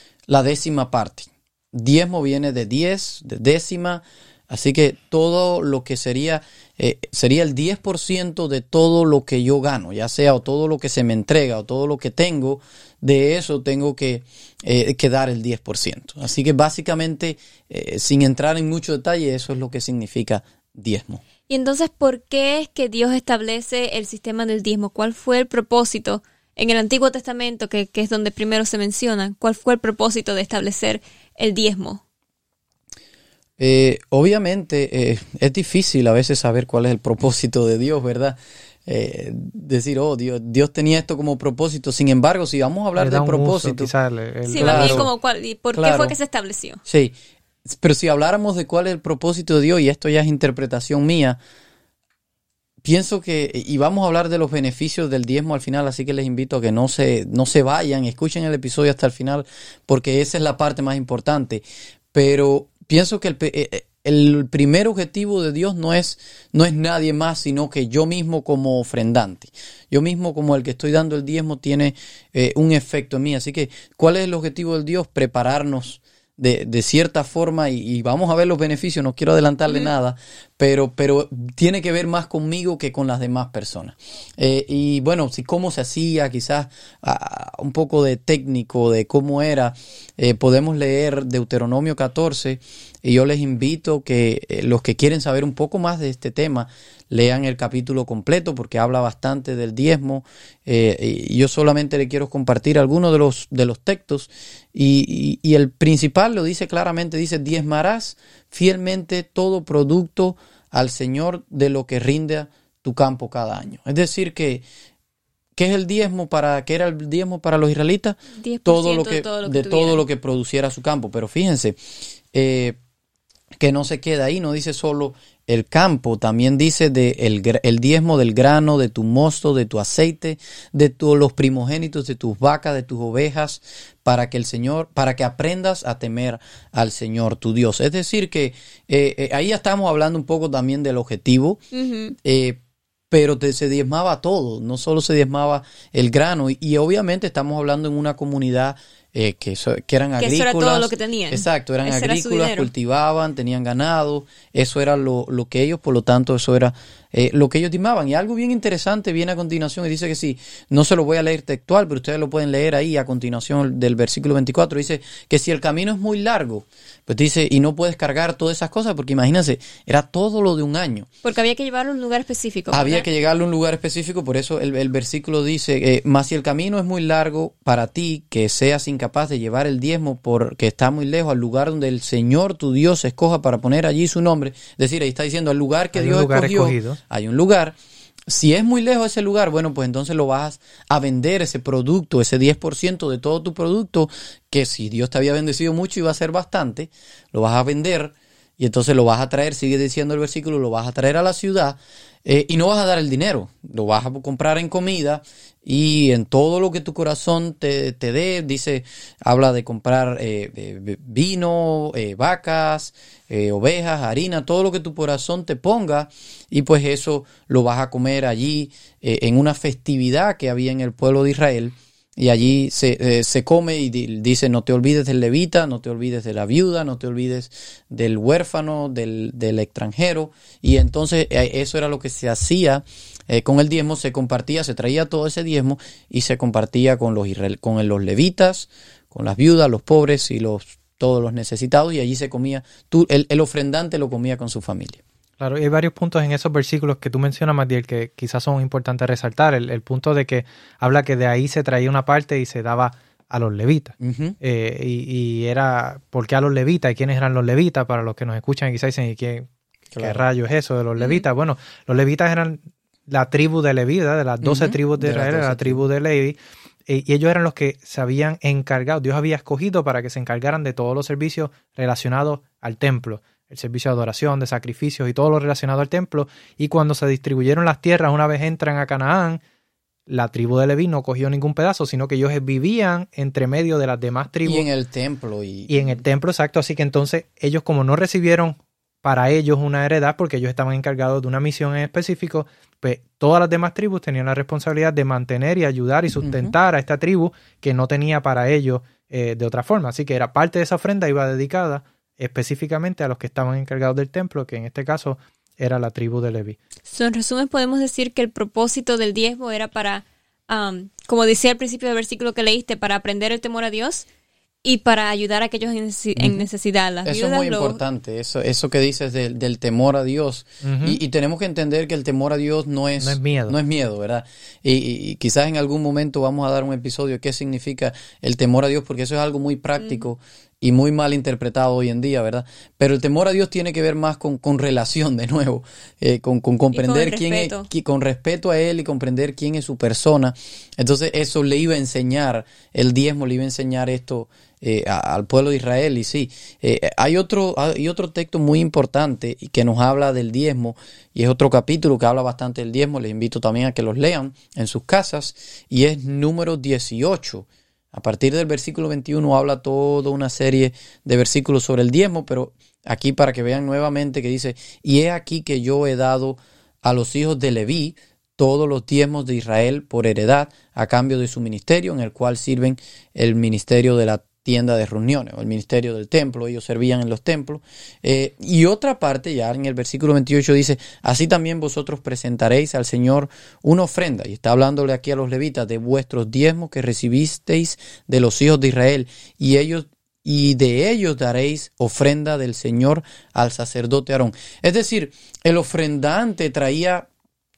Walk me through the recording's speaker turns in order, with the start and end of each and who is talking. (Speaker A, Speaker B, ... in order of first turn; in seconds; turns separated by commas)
Speaker A: 0.3-21.2, Speaker B: 21.5-32.0, Speaker A: 33.6-43.9, Speaker C: 43.0-45.1, Speaker B: 44.5-46.8, Speaker A: 44.5-45.1, Speaker A: 45.7-46.1, Speaker A: 46.9-51.4, Speaker A: 52.8-114.7, Speaker A: 115.6-121.8, Speaker B: 118.4-120.0, Speaker A: 122.3-122.8, Speaker A: 123.6-141.6, Speaker B: 141.7-142.2, Speaker A: 142.2-142.6, Speaker A: 143.1-171.1, Speaker B: 150.2-152.7, Speaker B: 171.2-173.1, Speaker A: 172.7-187.8, Speaker C: 185.9-187.0, Speaker A: 188.3-245.0, Speaker C: 245.4-259.5, Speaker A: 254.0-254.4, Speaker A: 259.9-260.2, Speaker C: 260.0-266.4, Speaker B: 261.0-261.2, Speaker A: 264.4-265.9, Speaker C: 266.9-279.4, Speaker C: 280.1-284.6, Speaker A: 284.4-285.7, Speaker C: 285.7-306.6, Speaker A: 296.2-296.5, Speaker B: 306.9-314.1, Speaker B: 314.6-317.8, Speaker A: 317.1-397.1, Speaker C: 320.6-321.0, Speaker C: 323.0-323.6, Speaker B: 336.7-337.7